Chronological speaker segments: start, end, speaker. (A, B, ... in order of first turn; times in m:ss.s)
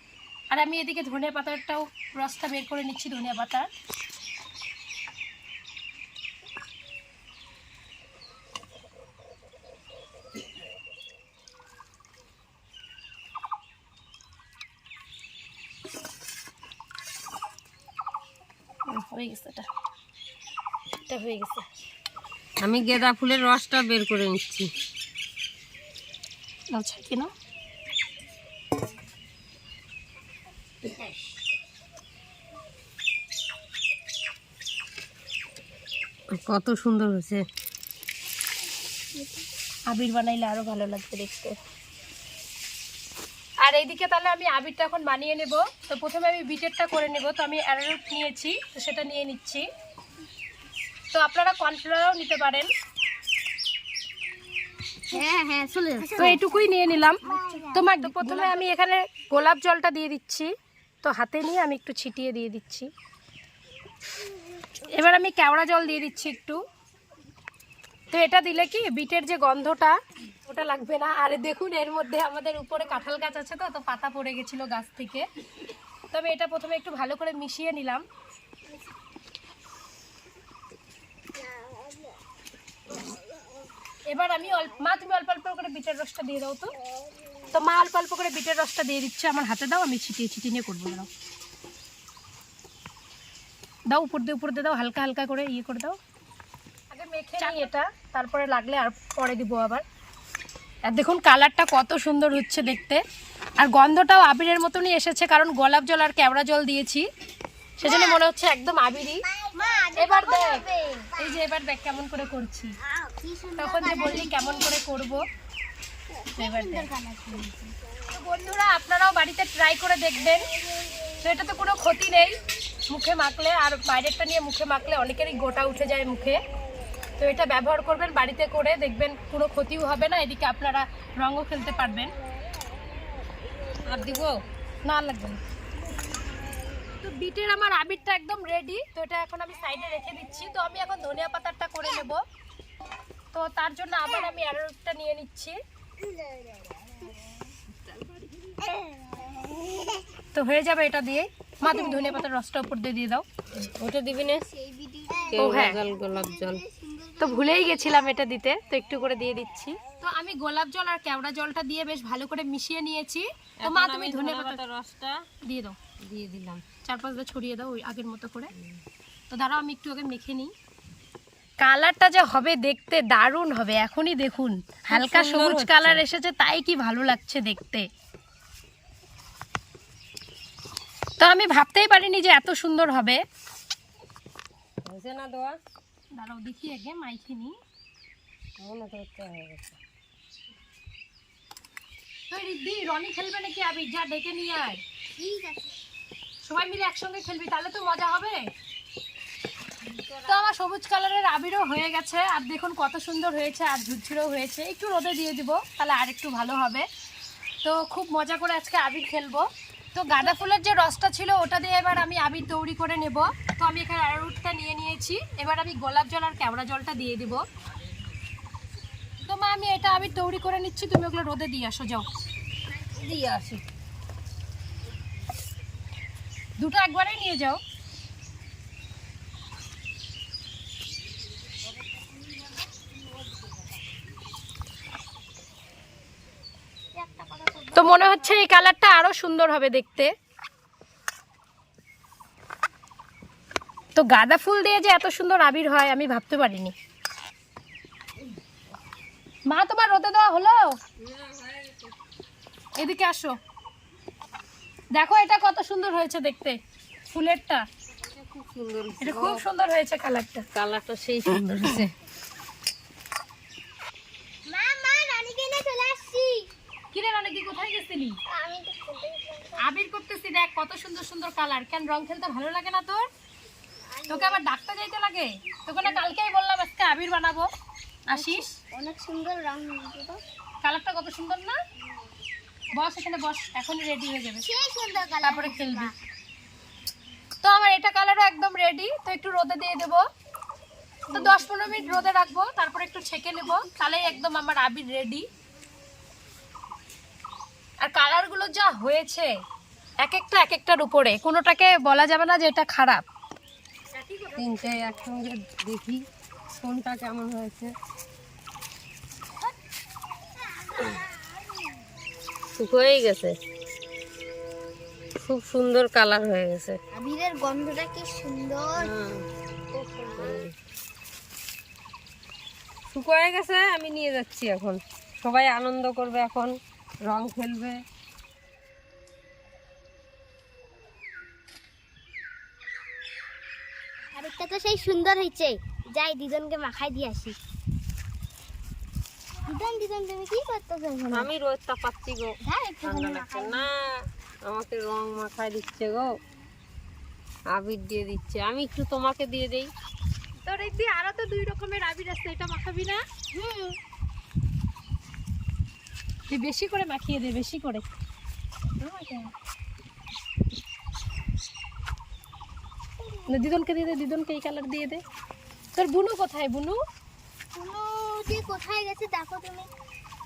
0:00.5-0:03.7 A
0:18.9-0:19.7 A
0:21.1-0:21.7 A
0:22.6-0:24.7 B
0:26.7-0:27.3 A
0:36.4-0:37.4 B
0:39.9-0:41.6 A
0:43.6-0:49.7 A
0:51.1-0:52.7 A
0:55.1-0:56.6 C
0:56.2-1:00.5 A
0:57.2-0:58.7 C
1:01.0-1:02.9 A
1:04.8-1:06.6 A
1:08.1-1:15.2 A
1:16.1-1:18.0 A
1:24.1-1:26.7 A
1:27.5-1:31.1 A
1:33.9-1:36.0 A
1:36.9-1:39.8 A
1:37.4-1:37.7 C
1:40.9-1:43.0 A
1:43.6-1:47.0 A
1:47.8-1:49.2 A
1:47.8-1:48.2 C
1:49.2-1:51.4 C
1:49.9-1:50.6 A
1:51.2-1:52.7 A
1:53.0-1:54.8 C
1:53.6-1:55.2 A
1:56.3-1:57.7 C
1:56.4-1:56.9 A
1:58.1-2:00.4 A
2:01.2-2:02.4 A
2:02.9-2:06.4 A
2:07.2-2:12.1 A
2:13.8-2:14.4 B
2:14.8-2:15.4 A
2:17.0-2:22.2 A
2:23.3-2:25.6 A
2:30.3-2:33.2 A
2:33.5-2:34.5 B
2:34.5-2:37.8 C
2:35.3-2:36.6 B
2:35.4-2:35.8 A
2:37.2-2:44.6 A
2:43.6-2:45.2 B
2:45.4-2:45.8 A
2:46.0-2:46.6 B
2:46.8-2:48.5 A
2:48.5-2:48.8 B
2:49.3-2:50.5 A
2:51.6-2:57.9 A
2:54.9-2:56.0 B
3:01.2-3:03.2 A
3:04.8-3:05.5 B
3:06.2-3:07.6 A
3:08.6-3:09.8 B
3:12.3-3:14.8 A
3:15.2-3:15.8 C
3:16.5-3:18.5 A
3:19.8-3:20.4 B
3:20.3-3:26.9 A
3:27.6-3:37.4 A
3:39.2-3:42.1 A
3:42.9-3:43.6 B
3:46.6-3:47.6 A
3:57.0-3:58.3 C
3:57.7-4:00.1 A
4:04.0-4:06.7 A
4:09.5-4:10.8 A
4:11.0-4:11.9 B
4:12.8-4:13.4 A
4:14.9-4:16.6 A
4:17.1-4:17.6 A
4:18.0-4:19.4 B
4:19.0-4:20.5 A
4:20.5-4:21.9 B
4:24.4-4:26.5 C
4:26.9-4:28.2 A
4:28.3-4:29.6 C
4:29.6-4:33.1 A
4:33.9-4:34.4 C
4:34.1-4:37.5 A
4:38.1-4:38.6 A
4:38.1-4:40.2 C
4:40.6-4:41.6 A
4:42.8-4:44.5 A
4:44.4-4:45.9 C
4:45.2-4:45.9 A
4:47.4-4:50.0 A
4:51.1-4:52.1 C
4:51.1-4:55.3 A
4:53.5-4:54.1 C
4:57.8-4:59.3 A
5:00.0-5:03.0 A
5:04.0-5:04.9 A
5:04.4-5:06.0 B
5:06.6-5:07.7 B
5:10.6-5:11.2 C
5:12.6-5:13.4 B
5:15.2-5:16.8 B
5:16.9-5:18.9 C
5:18.7-5:19.2 B
5:19.8-5:20.5 B
5:22.9-5:26.5 B
5:27.0-5:27.8 B
5:34.1-5:37.4 C
5:39.4-5:41.3 C
5:41.1-5:43.9 B
5:42.4-5:43.7 C
5:44.4-5:46.1 B
5:47.5-5:49.7 B
5:50.4-5:53.0 A
5:53.3-5:53.8 C
5:56.3-5:57.8 A
5:58.8-5:59.2 C
6:03.3-6:05.0 A
6:05.8-6:06.8 A
6:07.5-6:09.7 C